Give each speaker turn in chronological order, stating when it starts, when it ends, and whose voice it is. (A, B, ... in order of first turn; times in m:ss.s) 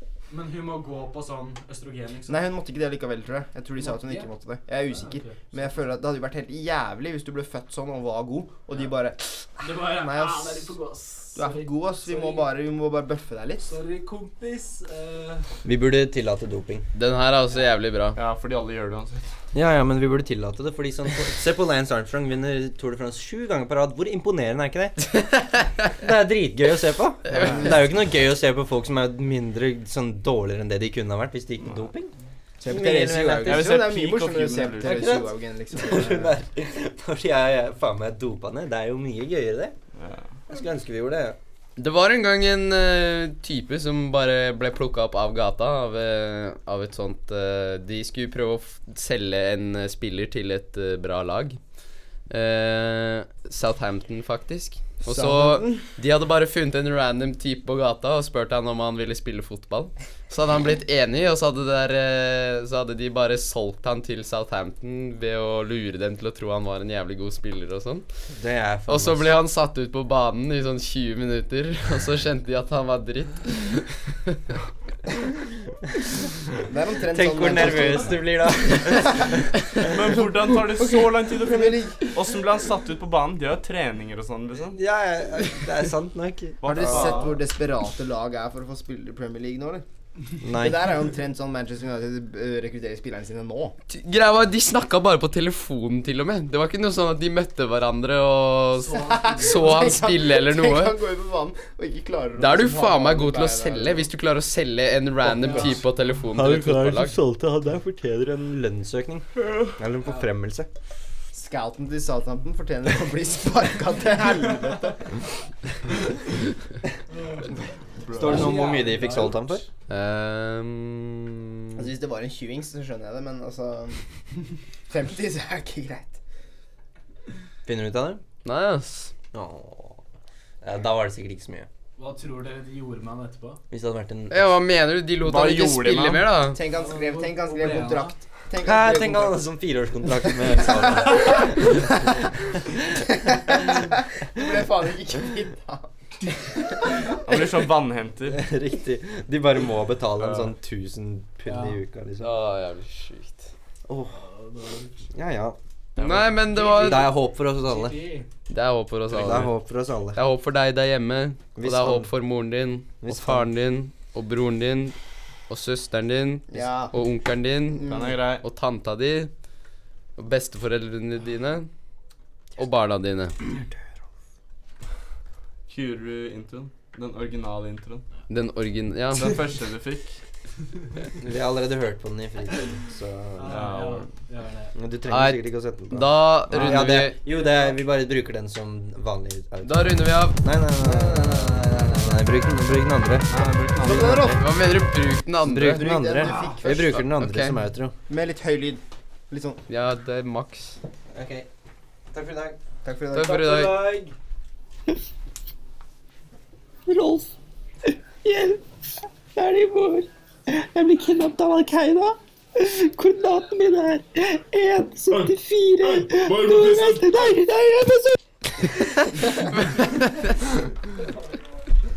0:00.3-0:02.5 A
0:02.3-0:10.8 B
0:03.8-0:04.3 A
0:04.9-0:05.4 A
0:09.6-0:12.5 A
0:11.4-0:13.7 B
0:13.6-0:15.5 A
0:15.6-0:16.9 C
0:16.9-0:18.2 D
0:18.2-0:19.3 E
0:19.5-0:25.1 C
0:26.0-0:32.1 C
0:27.4-0:27.8 B
0:32.6-0:36.4 B
0:32.7-0:33.9 C
0:33.4-0:35.2 E
0:34.8-0:39.8 C
0:40.0-0:40.2 E
0:40.5-0:41.4 C
0:41.8-0:51.6 D
0:52.3-1:08.1 D
0:55.0-0:55.9 B
1:08.4-1:09.4 C
1:08.9-1:14.4 D
1:16.6-1:19.4 B
1:17.1-1:19.5 C
1:19.9-1:24.8 E
1:20.0-1:22.2 B
1:24.7-1:27.3 C
1:26.6-1:27.4 E
1:26.6-1:29.8 B
1:30.4-1:30.9 C
1:30.5-1:33.8 B
1:33.9-1:41.0 D
1:38.8-1:39.6 A
1:39.0-1:44.1 B
1:42.4-1:47.2 D
1:45.4-1:45.8 A
1:45.5-1:45.7 C
1:46.3-1:50.7 C
1:51.3-1:55.2 B
1:57.1-1:59.6 A
1:58.1-1:58.5 E
1:58.1-1:59.6 C
1:59.9-2:01.8 D
2:01.8-2:04.0 B
2:04.9-2:06.2 B
2:07.7-2:08.2 C
2:08.4-2:09.1 D
2:09.3-2:10.0 C
2:10.6-2:11.7 C
2:12.0-2:13.6 A
2:13.7-2:14.5 C
2:14.3-2:16.6 D
2:15.2-2:16.3 E
2:16.5-2:19.4 B
2:16.7-2:18.1 A
2:18.6-2:23.0 C
2:20.6-2:21.7 B
2:23.2-2:25.9 B
2:26.6-2:27.1 B
2:27.1-2:28.4 E
2:28.3-2:32.4 C
2:30.2-2:30.5 E
2:31.5-2:31.8 A
2:32.2-2:33.5 D
2:33.9-2:34.2 C
2:34.1-2:35.1 A
2:35.1-2:35.6 C
2:36.0-2:37.1 D
2:36.0-2:36.3 E
2:36.5-2:38.3 A
2:36.6-2:38.0 C
2:38.5-2:39.5 D
2:39.1-2:40.2 C
2:40.1-2:45.0 D
2:41.6-2:42.1 C
2:43.0-2:43.5 C
2:45.5-2:49.3 D
2:46.5-2:47.0 B
2:47.9-2:48.4 E
2:50.2-2:51.7 D
2:52.6-2:53.5 D
2:55.7-2:58.1 E
2:58.3-2:59.4 D
2:59.2-3:00.2 E
3:01.2-3:03.9 C
3:03.4-3:04.7 A
3:03.5-3:04.0 E
3:04.7-3:14.4 C
3:05.1-3:07.2 D
3:09.6-3:10.4 D
3:10.8-3:12.2 B
3:13.3-3:14.4 E
3:13.8-3:14.6 B
3:14.4-3:15.9 D
3:15.4-3:18.0 C
3:15.7-3:17.1 B
3:17.0-3:17.6 D
3:18.1-3:19.6 B
3:19.7-3:20.8 D
3:21.1-3:21.5 C
3:22.1-3:22.6 C
3:22.8-3:23.8 B
3:23.1-3:23.9 D
3:23.7-3:24.1 A
3:26.9-3:27.3 F
3:27.9-3:28.6 F
3:29.3-3:38.2 F
3:39.6-3:40.2 D